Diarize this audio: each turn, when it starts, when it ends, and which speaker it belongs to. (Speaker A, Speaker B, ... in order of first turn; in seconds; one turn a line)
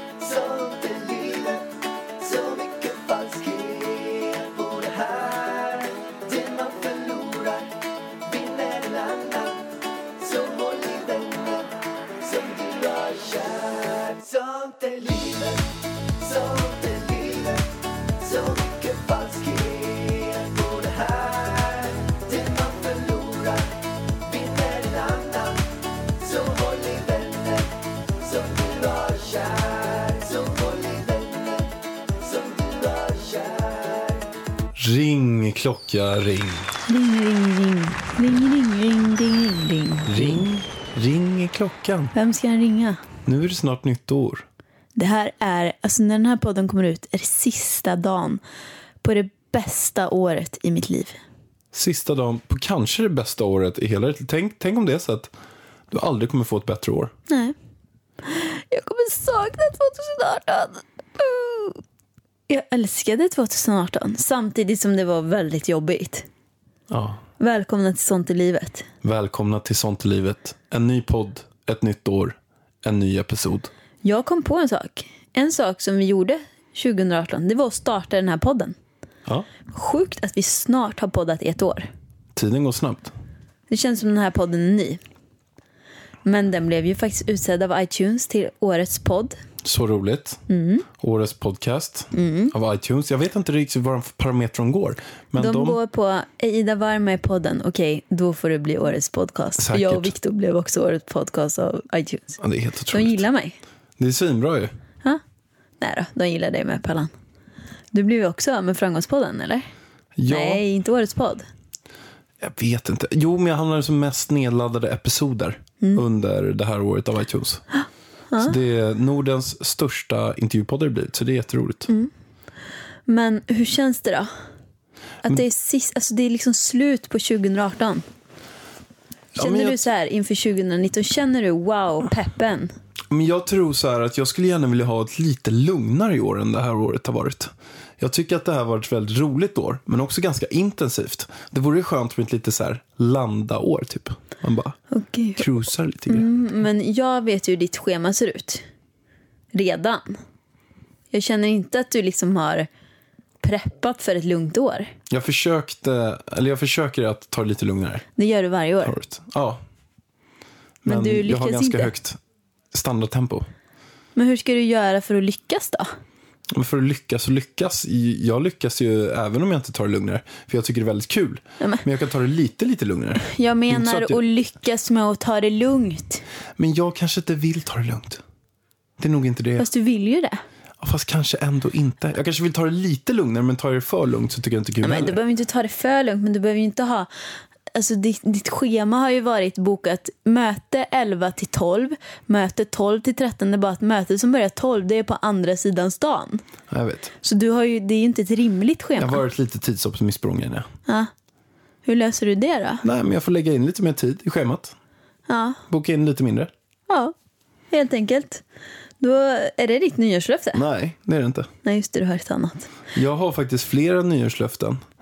Speaker A: 0.2-1.7
Speaker A: 2.2-7.7
Speaker A: 8.3-9.6
Speaker A: 10.2-15.7
Speaker A: 16.2-23.7
Speaker A: 24.2-25.6
Speaker A: 26.2-34.2
Speaker B: 34.8-36.8
Speaker C: 36.9-40.4
Speaker B: 40.0-42.1
Speaker C: 42.1-43.0
Speaker B: 43.3-44.5
Speaker C: 45.0-48.4
Speaker C: 49.0-51.2
Speaker B: 51.7-55.3
Speaker B: 55.9-57.1
Speaker C: 57.3-57.5
Speaker C: 58.2-61.8
Speaker C: 62.5-66.3
Speaker B: 66.9-67.2
Speaker C: 67.4-68.9
Speaker B: 69.0-73.7
Speaker C: 74.0-78.8
Speaker C: 79.7-81.9
Speaker B: 82.3-83.1
Speaker C: 83.7-85.0
Speaker C: 86.2-89.4
Speaker B: 89.6-90.4
Speaker C: 90.5-90.9
Speaker B: 91.0-95.8
Speaker C: 92.1-92.5
Speaker C: 95.4-102.4
Speaker B: 99.6-100.1
Speaker B: 102.4-103.3
Speaker C: 102.9-103.6
Speaker B: 104.0-104.7
Speaker C: 105.8-107.1
Speaker C: 107.9-109.7
Speaker B: 110.2-110.6
Speaker C: 110.3-111.5
Speaker B: 112.4-117.6
Speaker C: 117.8-118.5
Speaker B: 118.4-121.9
Speaker C: 123.1-124.3
Speaker C: 125.2-128.0
Speaker B: 129.3-129.9
Speaker C: 129.4-132.7
Speaker B: 133.1-144.8
Speaker C: 144.9-145.5
Speaker B: 145.4-146.3
Speaker C: 146.1-148.6
Speaker C: 149.5-150.2
Speaker C: 151.1-152.7
Speaker C: 153.4-154.9
Speaker B: 155.1-158.1
Speaker C: 158.2-158.9
Speaker B: 158.8-159.6
Speaker B: 160.8-162.2
Speaker C: 160.9-161.9
Speaker B: 162.7-163.5
Speaker C: 164.2-165.9
Speaker B: 166.5-174.2
Speaker C: 173.2-176.2
Speaker B: 176.6-178.2
Speaker B: 179.0-179.7
Speaker C: 179.6-180.4
Speaker B: 180.8-185.2
Speaker C: 184.8-187.1
Speaker C: 187.7-196.4
Speaker B: 196.7-197.1
Speaker C: 197.2-199.2
Speaker B: 199.0-200.7
Speaker C: 201.8-202.8
Speaker B: 202.8-204.8
Speaker C: 205.3-205.6
Speaker B: 205.7-206.5
Speaker C: 206.9-207.1
Speaker C: 207.7-208.4
Speaker C: 209.0-210.6
Speaker B: 210.6-211.5
Speaker C: 211.7-212.7
Speaker B: 212.9-214.8